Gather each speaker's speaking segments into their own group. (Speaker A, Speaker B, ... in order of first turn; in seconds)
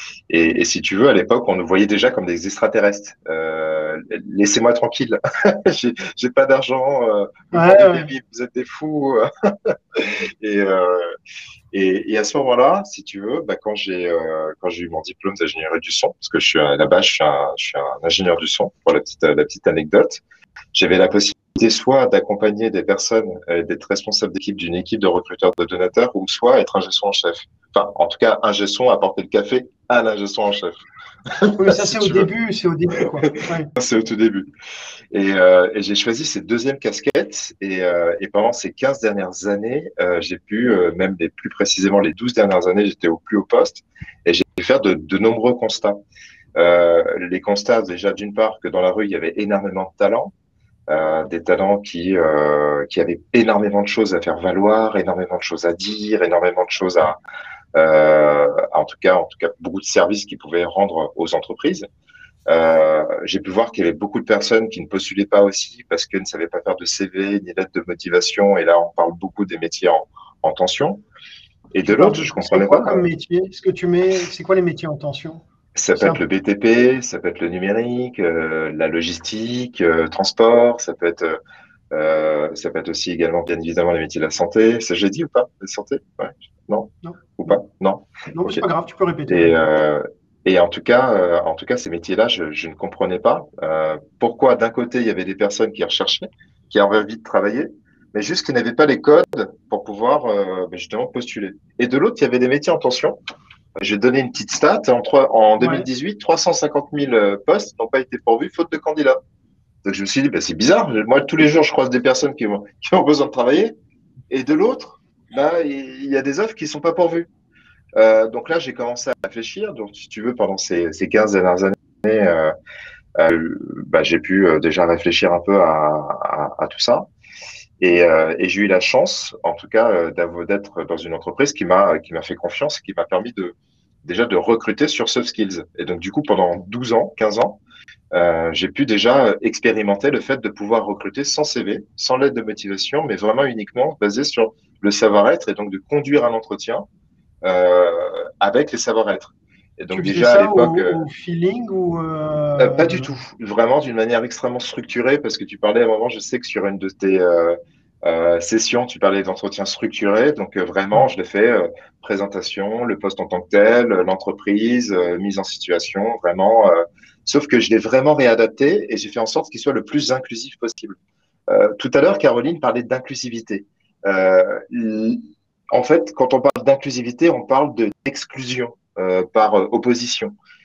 Speaker A: 0.3-11.1, 11.7-20.2, 20.7-32.3, 33.2-34.5, 35.1-46.0, 46.5-50.3, 50.9-57.2, 57.7-61.9, 62.5-71.0, 71.7-73.0, 75.7-81.4, 81.9-88.6, 89.3-103.2, 103.8-109.2, 109.8-113.7, 114.3-117.3, 118.0-122.5, 123.2-127.1, 127.8-137.6, 138.1-146.8, 147.4-151.0, 152.6-171.0, 171.5-180.3
Speaker B: 7.5-8.1, 31.5-33.7, 71.8-75.4, 75.9-76.2, 88.3-89.7, 105.6-105.8, 149.9-153.2